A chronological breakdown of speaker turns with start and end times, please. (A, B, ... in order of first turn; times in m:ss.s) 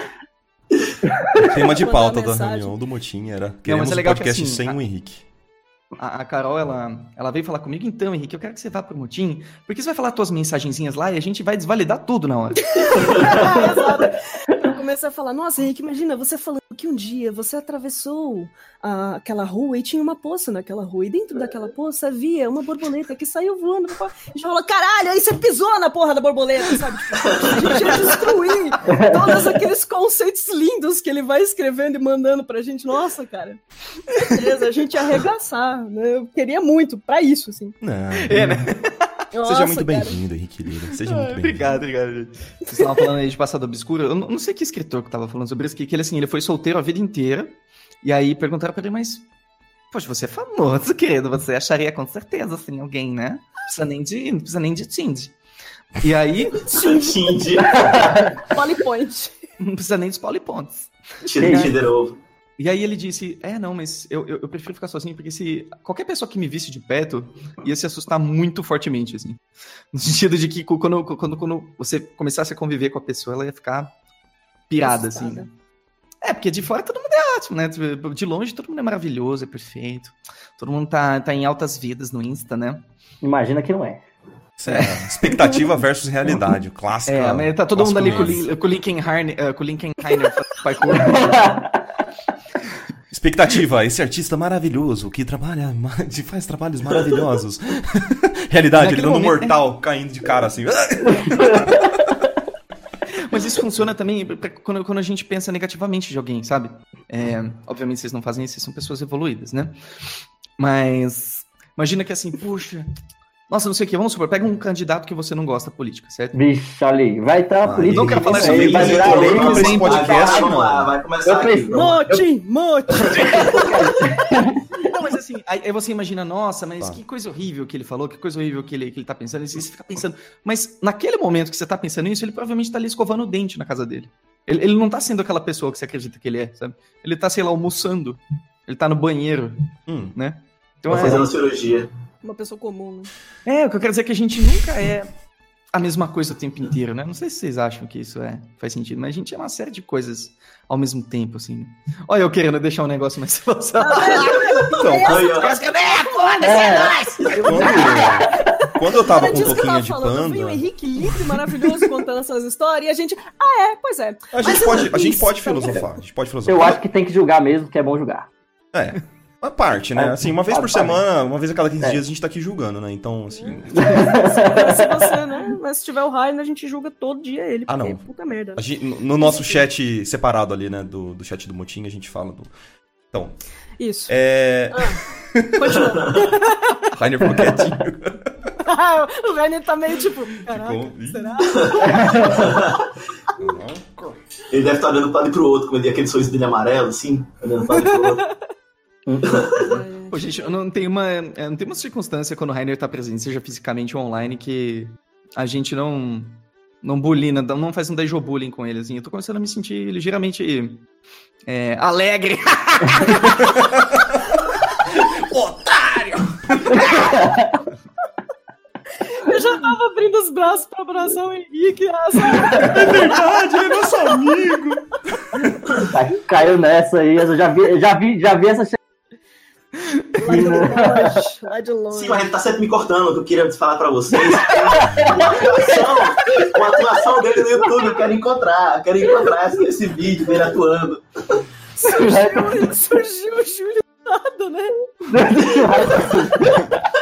0:01.4-0:05.2 A
0:01.6-0:02.7 B
0:03.6-0:04.8 C
0:06.0-0:13.4 C
0:12.8-0:37.8 B
0:27.2-0:28.0 D
0:28.9-0:29.4 E
0:37.8-0:38.7 A
0:38.2-0:39.1 C
0:39.3-0:40.2 B
0:39.4-0:41.8 A
0:41.0-0:49.2 C
0:49.9-0:55.3 C
0:56.0-0:56.9 C
0:56.7-0:57.1 B
0:56.7-0:58.2 D
0:57.7-0:58.3 E
0:58.4-0:59.3 B
0:59.6-1:01.7 C
1:01.2-1:02.2 D
1:01.4-1:01.8 E
1:02.6-1:09.4 C
1:09.9-1:13.9 C
1:14.7-1:15.5 C
1:14.8-1:15.5 B
1:16.2-1:22.9 C
1:23.2-1:24.0 E
1:24.6-1:28.4 A
1:24.7-1:25.0 C
1:27.1-1:31.5 C
1:30.9-1:31.8 E
1:33.1-1:41.9 A
1:38.8-1:39.6 C
1:41.2-1:41.8 E
1:43.1-1:52.9 C
1:53.5-1:56.4 C
1:56.3-2:00.5 E
1:57.6-2:00.9 A
1:57.9-2:00.1 C
1:58.7-2:02.2 D
2:01.2-2:02.2 E
2:01.7-2:04.1 B
2:03.3-2:04.7 E
2:04.8-2:21.3 C
2:19.9-2:20.2 A
2:20.9-2:21.9 D
2:22.2-2:23.1 B
2:23.4-2:25.1 C
2:25.7-2:37.9 C
2:33.8-2:35.3 B
2:34.7-2:35.2 A
2:35.0-2:35.6 D
2:36.4-2:38.5 E
2:37.2-2:37.9 D
2:37.3-2:40.6 A
2:38.1-2:45.8 B
2:44.3-2:46.8 A
2:46.4-2:48.3 E
2:48.7-2:54.1 A
2:50.0-2:51.0 E
2:53.3-2:58.6 B
2:53.7-2:55.2 E
2:57.7-2:58.0 A
2:58.6-3:02.5 A
2:59.2-2:59.6 B
3:03.1-3:03.4 A
3:03.8-3:04.1 B
3:04.1-3:05.6 A
3:04.7-3:05.0 B
3:05.5-3:06.9 B
3:05.7-3:06.3 D
3:06.9-3:08.4 A
3:08.6-3:12.5 B
3:10.5-3:11.6 A
3:11.5-3:12.9 D
3:11.9-3:12.4 E
3:13.4-3:14.2 A
3:14.5-3:18.2 D
3:19.0-3:19.4 E
3:19.2-3:19.8 D
3:19.5-3:20.6 B
3:20.1-3:30.8 C
3:31.5-3:33.6 C
3:33.6-3:34.2 A
3:34.9-3:36.8 A
3:36.7-3:37.6 E
3:39.1-3:43.4 B
3:42.4-3:45.5 A
3:45.8-3:48.8 E
3:49.8-3:50.2 C
3:50.2-3:52.3 B
3:50.2-3:51.2 E
3:51.9-4:01.4 D
3:54.6-3:55.4 E
3:55.2-3:55.6 B
4:01.7-4:04.9 B
4:01.8-4:02.7 E
4:05.1-4:06.8 E